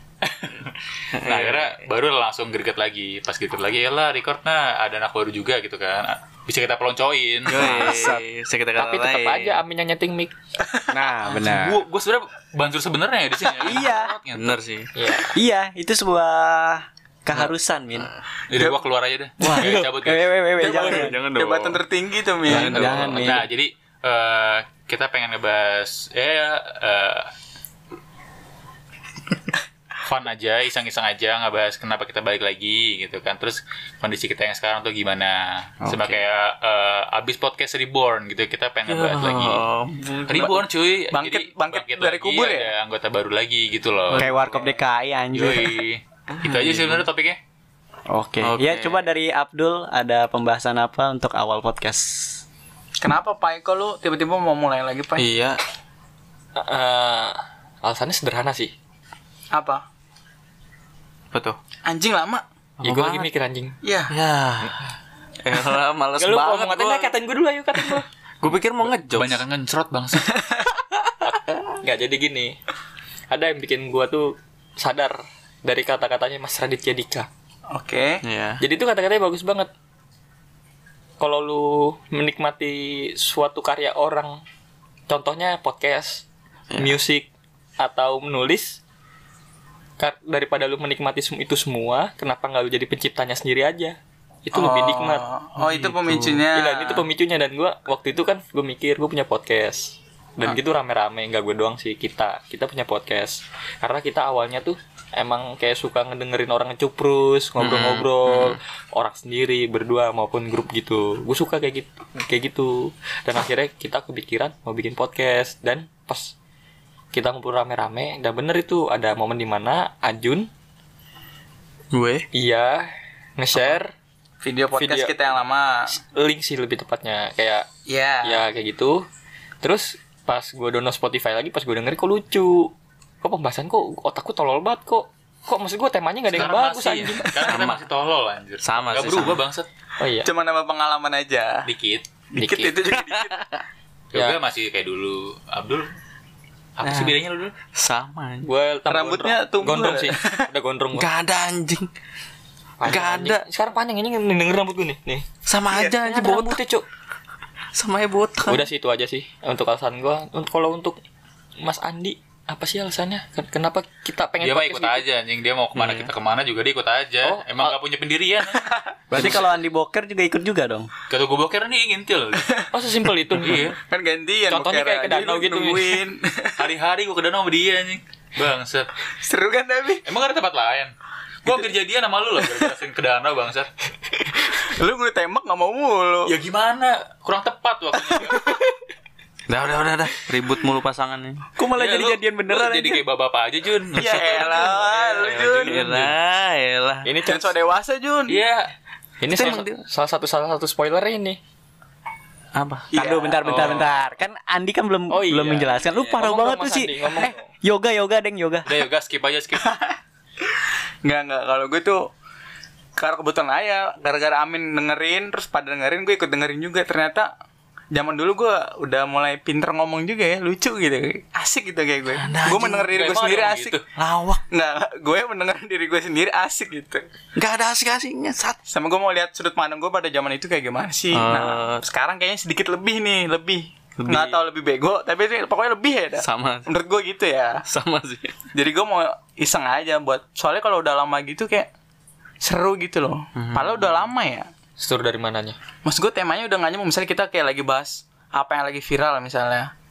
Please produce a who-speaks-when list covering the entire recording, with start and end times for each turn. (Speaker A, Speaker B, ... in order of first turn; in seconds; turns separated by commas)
Speaker A: 0.3-8.1, Speaker B: 1.1-1.8, Speaker B: 7.5-9.6, Speaker C: 7.5-8.2, Speaker D: 8.8-10.3, Speaker E: 10.6-11.0, Speaker C: 10.9-11.8, Speaker A: 11.2-14.6, Speaker B: 13.5-13.8, Speaker C: 13.6-14.2, Speaker B: 14.3-14.9, Speaker D: 14.9-15.3, Speaker C: 15.3-18.1, Speaker B: 17.3-18.2, Speaker A: 18.5-20.3, Speaker E: 18.5-18.8, Speaker C: 19.4-21.2, Speaker E: 20.6-22.8, Speaker B: 20.8-21.8, Speaker B: 22.4-23.4, Speaker C: 22.5-23.4, Speaker A: 22.5-27.3, Speaker A: 30.0-39.6, Speaker C: 35.8-36.2, Speaker B: 38.9-40.5, Speaker A: 40.2-44.3, Speaker E: 40.3-42.7, Speaker B: 44.1-44.6, Speaker C: 44.1-45.8, Speaker A: 45.3-47.4, Speaker B: 46.3-47.0, Speaker C: 48.1-52.4, Speaker B: 48.4-49.0, Speaker E: 53.0-55.2, Speaker B: 55.2-55.6, Speaker D: 56.5-58.7, Speaker E: 59.5-59.8, Speaker B: 61.3-61.6, Speaker E: 61.8-62.4, Speaker B: 62.8-63.3, Speaker D: 62.8-63.7, Speaker E: 63.8-64.1, Speaker B: 64.1-64.9, Speaker B: 65.4-67.2, Speaker D: 66.2-68.0, Speaker B: 67.8-69.4, Speaker A: 68.8-70.3, Speaker E: 70.3-70.7, Speaker D: 71.2-72.5, Speaker D: 73.3-77.3, Speaker E: 77.7-78.2, Speaker B: 78.2-78.6, Speaker D: 78.6-79.7, Speaker D: 81.2-84.4, Speaker D: 85.1-86.2, Speaker D: 86.8-88.8, Speaker D: 90.0-94.0, Speaker D: 94.5-95.2, Speaker E: 94.5-97.1, Speaker B: 95.6-96.4, Speaker D: 96.5-116.3, Speaker B: 107.6-108.6, Speaker D: 117.1-120.5, Speaker B: 121.9-122.2, Speaker D: 122.3-123.9, Speaker E: 124.4-125.9, Speaker D: 124.8-125.3, Speaker D: 126.0-127.6, Speaker E: 127.9-128.4, Speaker D: 128.2-129.0, Speaker D: 129.6-137.4, Speaker A: 136.3-139.7, Speaker B: 137.5-137.8, Speaker B: 138.6-139.4, Speaker D: 140.0-140.3, Speaker E: 140.2-141.6, Speaker A: 141.6-142.1, Speaker E: 142.3-143.4, Speaker D: 142.3-142.7, Speaker B: 142.9-143.6, Speaker A: 144.1-145.9, Speaker A: 146.8-147.5, Speaker B: 146.8-147.2, Speaker B: 147.7-148.4, Speaker D: 148.4-151.1, Speaker E: 148.9-150.5, Speaker B: 150.9-151.9, Speaker D: 152.8-156.8, Speaker B: 152.8-153.4, Speaker B: 155.4-156.6, Speaker B: 157.7-158.7, Speaker D: 158.5-161.0, Speaker D: 161.6-165.0, Speaker A: 164.4-168.6, Speaker B: 165.7-166.1, Speaker D: 167.2-167.7, Speaker C: 169.1-170.9, Speaker B: 169.1-169.4, Speaker E: 169.1-169.4, Speaker A: 171.1-172.5, Speaker D: 172.7-173.6, Speaker A: 173.3-173.8, Speaker E: 173.8-176.7, Speaker D: 174.5-176.0, Speaker A: 176.6-178.9, Speaker E: 179.2-180.0, Speaker A: 180.0-180.9, Speaker A: 181.4-183.7, Speaker E: 182.4-182.7, Speaker E: 184.2-186.3, Speaker A: 186.3-188.6, Speaker B: 189.5-191.4, Speaker C: 191.6-193.0, Speaker A: 191.7-196.1, Speaker E: 193.9-196.0, Speaker B: 194.2-194.7, Speaker B: 195.6-197.1, Speaker D: 197.0-197.5, Speaker E: 197.2-198.4, Speaker A: 198.3-198.7, Speaker D: 199.2-201.4, Speaker B: 199.3-199.8, Speaker B: 202.5-202.9, Speaker E: 202.9-203.7, Speaker C: 202.9-208.7, Speaker A: 203.4-203.9, Speaker D: 205.1-207.5, Speaker A: 208.7-209.7, Speaker E: 209.6-209.9, Speaker E: 211.0-212.0, Speaker E: 213.0-217.3, Speaker E: 217.9-223.8, Speaker B: 222.1-222.9, Speaker A: 222.9-223.8, Speaker B: 223.9-224.4, Speaker E: 224.5-227.0, Speaker B: 227.3-228.6, Speaker E: 228.7-237.6, Speaker B: 231.1-231.8, Speaker B: 234.0-234.4, Speaker B: 236.2-236.7, Speaker B: 237.7-238.4, Speaker E: 238.5-241.7, Speaker E: 242.4-244.5, Speaker B: 243.3-244.0, Speaker D: 244.8-245.6, Speaker E: 245.8-249.7